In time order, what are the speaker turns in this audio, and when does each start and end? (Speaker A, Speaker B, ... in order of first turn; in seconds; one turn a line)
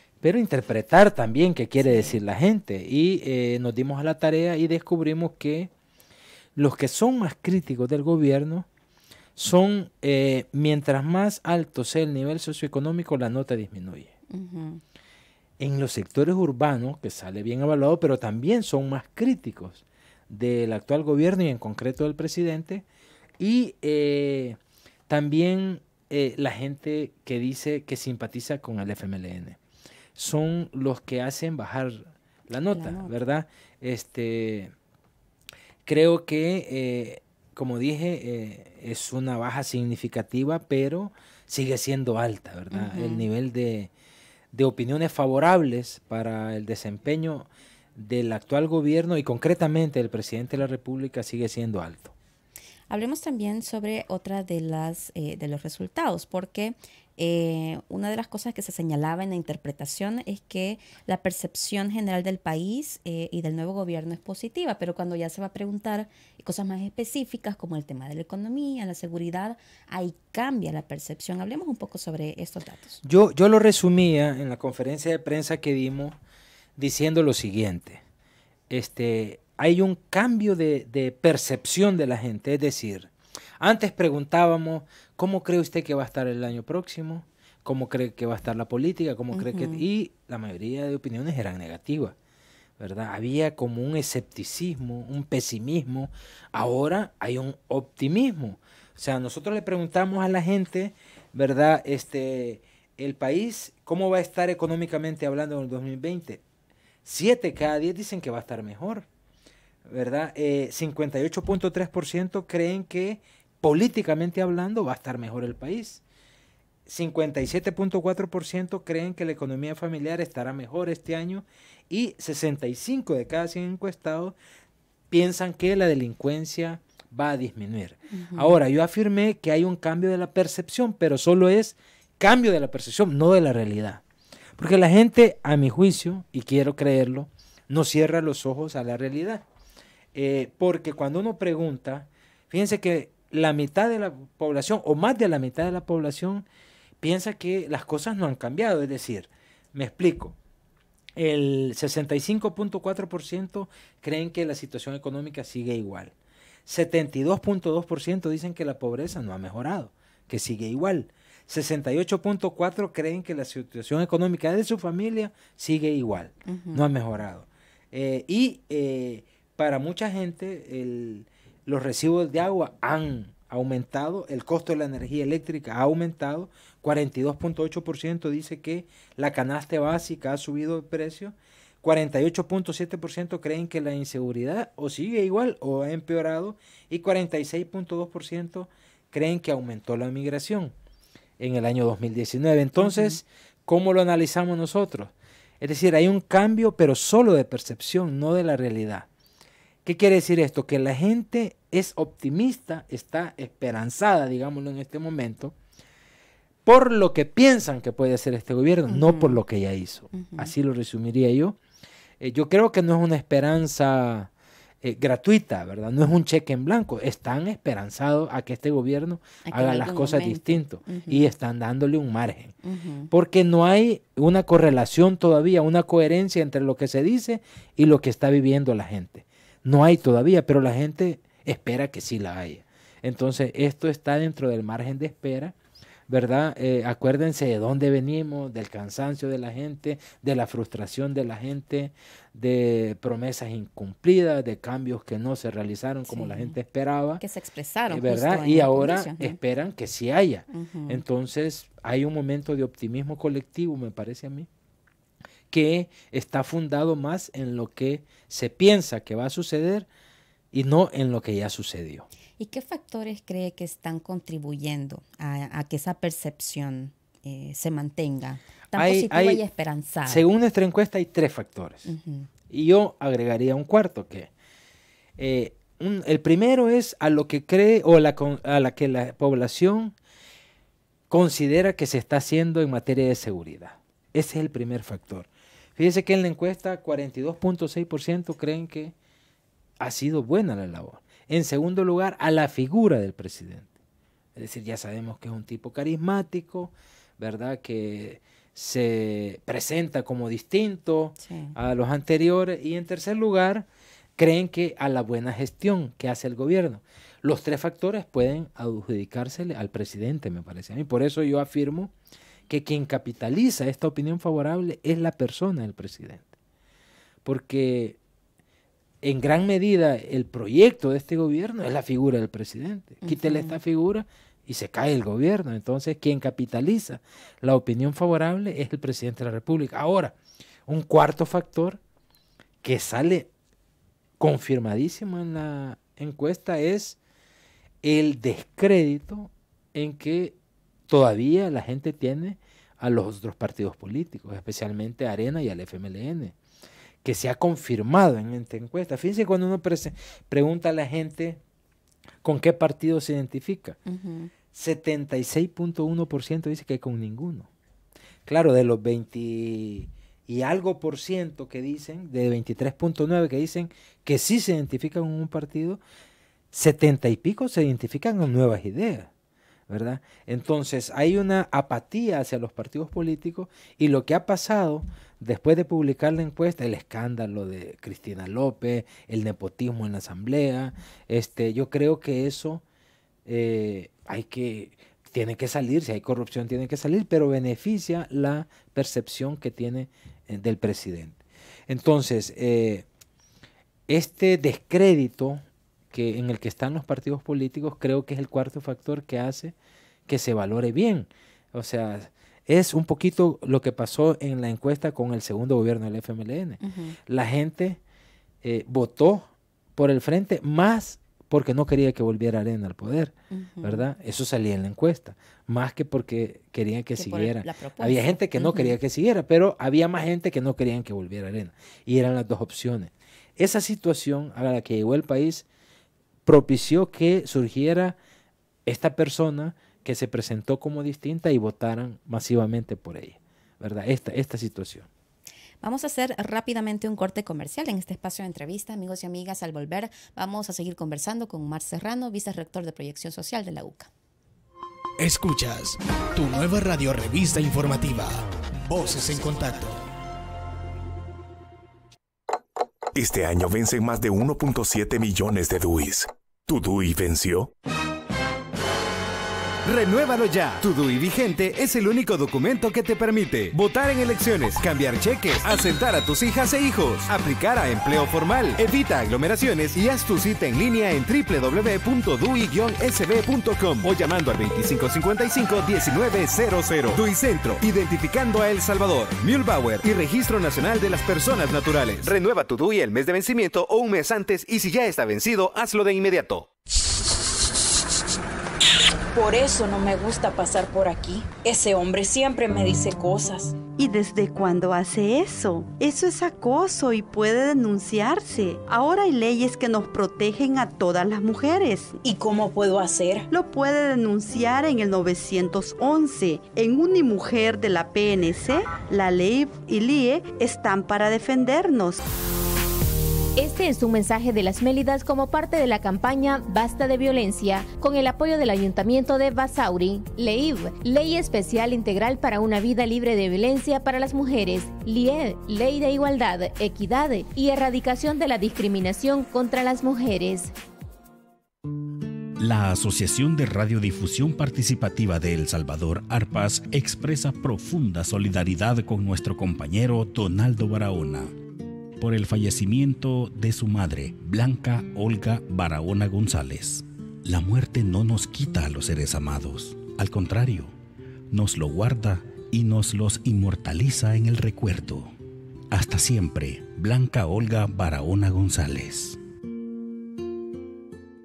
Speaker A: 0.2-5.7
Speaker B: 1.8-2.2
Speaker A: 6.5-8.7
Speaker A: 9.3-14.1
Speaker B: 14.3-14.8
Speaker A: 15.6-22.8
Speaker A: 23.4-24.6
Speaker A: 25.1-29.6
Speaker A: 30.1-34.7
Speaker B: 32.7-33.1
Speaker A: 35.9-43.9
Speaker B: 42.7-43.3
Speaker A: 44.5-52.1
Speaker B: 52.9-73.0
Speaker A: 73.0-76.2
Speaker A: 76.8-78.0
Speaker A: 78.7-92.1
Speaker B: 89.3-89.8
Speaker A: 92.8-106.4
Speaker A: 107.0-109.0
Speaker A: 109.8-116.0
Speaker A: 116.8-124.3
Speaker A: 125.1-134.0
Speaker B: 128.1-128.6
Speaker A: 134.6-139.4
Speaker A: 140.1-146.4
Speaker A: 147.0-150.3
Speaker A: 151.2-156.1
Speaker A: 156.7-190.7
Speaker B: 166.4-166.8
Speaker A: 191.4-199.1
Speaker B: 192.8-193.1
Speaker A: 199.8-205.5
Speaker A: 206.6-211.6
Speaker B: 208.9-209.4
Speaker B: 210.1-210.5
Speaker A: 212.2-214.3
Speaker A: 214.8-222.5
Speaker B: 219.4-221.3
Speaker B: 222.6-223.1
Speaker A: 223.1-235.5
Speaker A: 236.1-247.2
Speaker B: 246.1-246.6
Speaker B: 247.2-249.4
Speaker A: 247.9-254.5
Speaker B: 250.5-251.0
Speaker A: 255.5-259.9
Speaker A: 260.5-262.1
Speaker B: 262.4-270.3
Speaker A: 268.7-269.4
Speaker A: 270.1-271.9
Speaker B: 271.9-272.3
Speaker A: 272.5-274.3
Speaker A: 275.2-279.9
Speaker A: 281.1-288.9
Speaker A: 289.8-293.7
Speaker A: 294.4-303.6
Speaker B: 301.2-301.5
Speaker A: 304.2-311.9
Speaker A: 312.5-316.3
Speaker A: 317.2-318.0
Speaker A: 319.0-330.1
Speaker B: 323.0-323.6
Speaker A: 330.7-331.8
Speaker A: 332.6-333.3
Speaker A: 334.2-337.0
Speaker A: 337.8-340.3
Speaker A: 340.9-346.3
Speaker A: 347.0-351.4
Speaker A: 352.2-353.8
Speaker B: 353.9-354.3
Speaker A: 354.5-357.5
Speaker A: 358.2-365.8
Speaker A: 366.5-369.1
Speaker A: 369.7-382.6
Speaker A: 383.2-392.9
Speaker A: 393.9-399.5
Speaker A: 400.1-407.8
Speaker B: 406.6-406.9
Speaker A: 408.4-425.4
Speaker B: 413.3-413.9
Speaker B: 416.9-418.8
Speaker A: 426.2-427.9
Speaker A: 428.6-434.9
Speaker B: 435.6-443.9
Speaker C: 445.0-449.8
Speaker D: 452.9-457.5
Speaker E: 459.6-486.5
Speaker F: 489.1-493.5
Speaker G: 493.7-502.0
Speaker F: 502.0-503.3
Speaker G: 503.3-512.0
Speaker H: 513.4-530.5
Speaker I: 532.4-541.3
Speaker I: 542.0-550.7
Speaker I: 551.3-555.1
Speaker I: 555.7-559.2